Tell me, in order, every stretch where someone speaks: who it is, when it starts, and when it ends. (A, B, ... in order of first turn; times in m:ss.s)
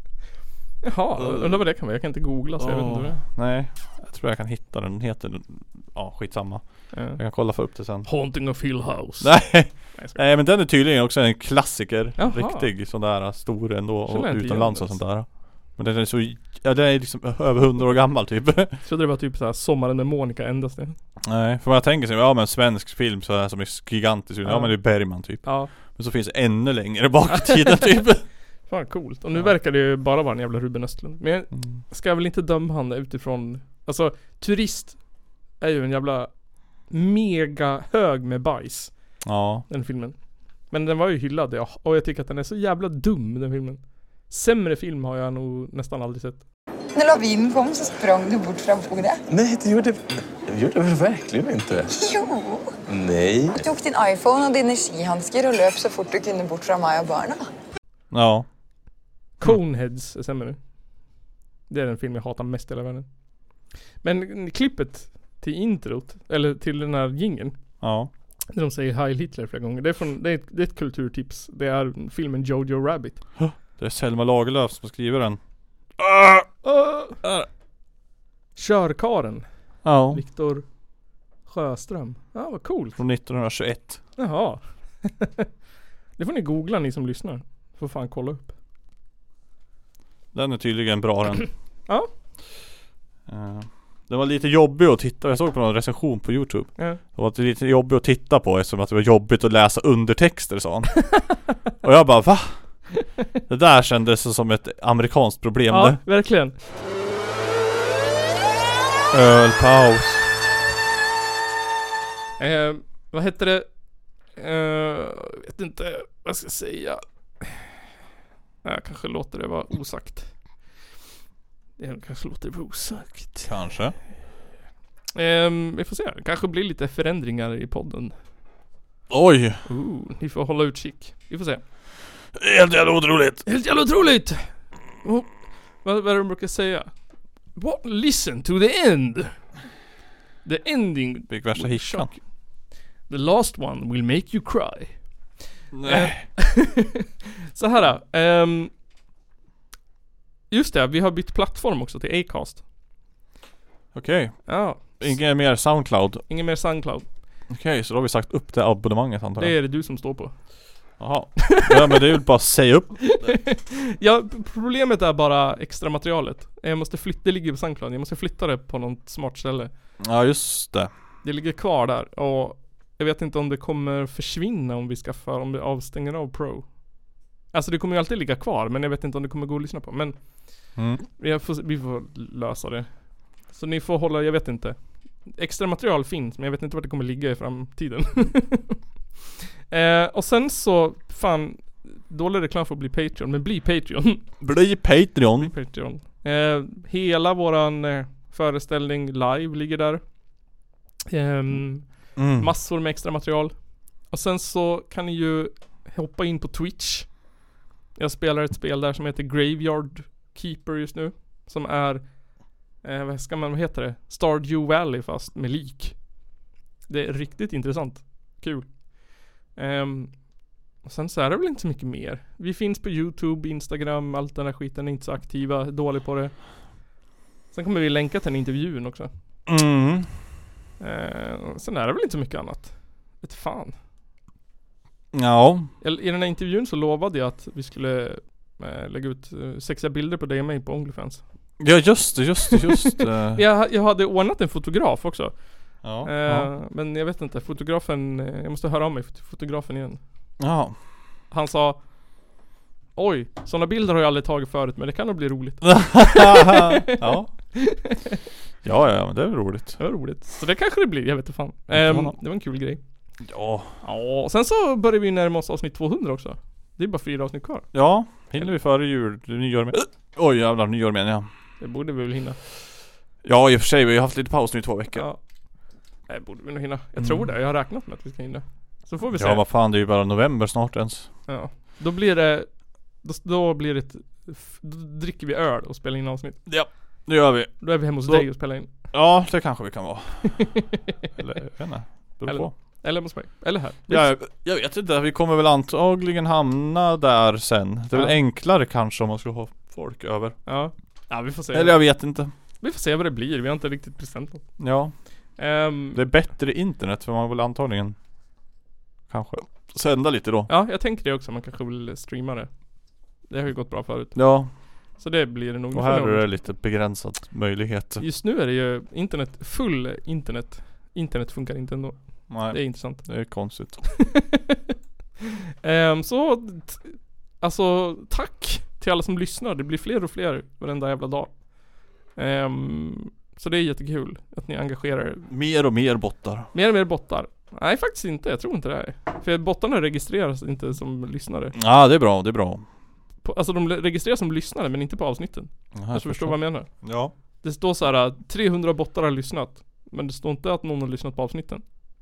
0:00.8-0:03.2 A
0:01.2-0:01.6 B
0:02.6-0:08.1 B
0:06.9-0:07.2 A
0:08.0-0:10.2 A
0:09.2-0:18.8 B
0:12.2-0:12.7 A
0:14.1-0:15.0 A
0:18.8-0:21.0 A
0:21.2-0:28.2 B
0:24.4-0:25.7 A
0:27.3-0:28.0 A
0:28.7-0:35.0 A
0:31.5-0:31.8 B
0:35.6-0:36.3 A
0:36.8-0:40.2 A
0:39.2-0:39.6 B
0:40.7-0:46.4 A
0:46.9-0:49.2 C
0:49.3-0:52.0 D
0:52.0-0:52.7 C
0:52.9-0:53.6 D
0:53.6-0:57.4 C
0:58.1-0:58.4 B
0:59.4-1:00.6 A
1:01.7-1:03.1 A
1:04.0-1:07.6 A
1:07.8-1:08.1 B
1:08.5-1:13.2 A
1:13.4-1:15.4 B
1:16.0-1:16.5 B
1:16.6-1:17.2 A
1:18.6-1:19.4 A
1:19.8-1:20.2 B
1:20.1-1:20.6 A
1:21.4-1:23.0 A
1:23.0-1:24.0 B
1:24.2-1:25.5 A
1:26.2-1:28.5 A
1:30.3-1:31.5 B
1:33.3-1:42.6 B
1:43.5-1:46.0 B
1:45.7-1:46.5 A
1:49.1-1:50.2 B
1:52.4-1:53.6 A
1:54.3-1:57.7 A
1:58.6-2:00.3 A
2:01.8-2:03.5 A
2:03.4-2:04.0 B
2:05.1-2:08.1 A
2:09.1-2:09.6 B
2:09.7-2:11.6 A
2:12.3-2:13.4 B
2:13.4-2:16.9 A
2:17.5-2:19.5 A
2:20.4-2:22.2 A
2:21.3-2:22.1 B
2:23.1-2:25.1 A
2:25.7-2:26.2 B
2:25.8-2:27.0 A
2:27.5-2:28.7 A
2:30.5-2:32.6 A
2:33.9-2:36.2 B
2:34.4-2:35.2 A
2:36.3-2:37.0 A
2:37.5-2:39.5 B
2:39.4-2:40.3 A
2:41.0-2:43.4 B
2:41.6-2:42.0 A
2:43.0-2:49.7 A
2:50.0-2:50.9 B
2:51.2-2:56.8 A
2:57.5-3:02.9 A
3:00.8-3:01.0 B
3:03.4-3:08.8 A
3:09.7-3:14.2 A
3:14.4-3:15.6 B
3:15.4-3:20.0 A
3:21.1-3:27.2 A
3:22.1-3:22.5 B
3:28.0-3:36.1 A
3:36.9-3:38.8 A
3:39.5-3:40.2 A
3:40.8-3:46.7 A
3:47.5-3:49.1 A
3:49.4-3:50.1 B
3:50.8-3:53.7 A
3:55.1-3:55.7 B
3:55.8-4:01.5 A
4:01.6-4:03.4 B
4:02.6-4:10.0 A
4:05.8-4:06.5 B
4:10.4-4:10.8 B
4:11.3-4:11.8 A
4:13.0-4:17.0 A
4:15.6-4:17.3 B
4:17.5-4:18.2 A
4:18.6-4:19.8 B
4:19.8-4:22.8 A
4:21.7-4:22.2 B
4:23.2-4:23.8 B
4:23.8-4:27.7 A
4:27.7-4:31.3 B
4:31.6-4:32.4 A
4:33.2-4:35.0 B
4:34.9-4:35.2 A
4:36.1-4:39.4 A
4:37.0-4:37.3 B
4:39.1-4:41.1 B
4:41.3-4:46.4 A
4:46.4-4:50.5 B
4:47.6-4:48.7 A
4:51.2-4:52.5 B
4:52.2-4:54.1 A
4:53.9-5:00.4 B
5:00.4-5:01.9 A
5:01.5-5:02.3 B
5:02.6-5:04.4 A
5:04.6-5:04.9 B
5:05.4-5:06.0 A
5:05.9-5:07.9 B
5:09.1-5:10.5 B
5:10.5-5:12.5 A
5:13.3-5:14.2 A
5:14.1-5:14.5 B
5:15.0-5:16.3 A
5:15.7-5:18.0 B
5:18.0-5:23.2 A
5:22.3-5:23.9 B
5:25.6-5:31.4 A
5:32.1-5:35.3 A
5:35.3-5:36.5 B
5:36.5-5:41.6 A
5:41.5-5:42.6 B
5:43.2-5:46.7 A
5:45.7-5:47.1 B
5:47.4-5:51.6 A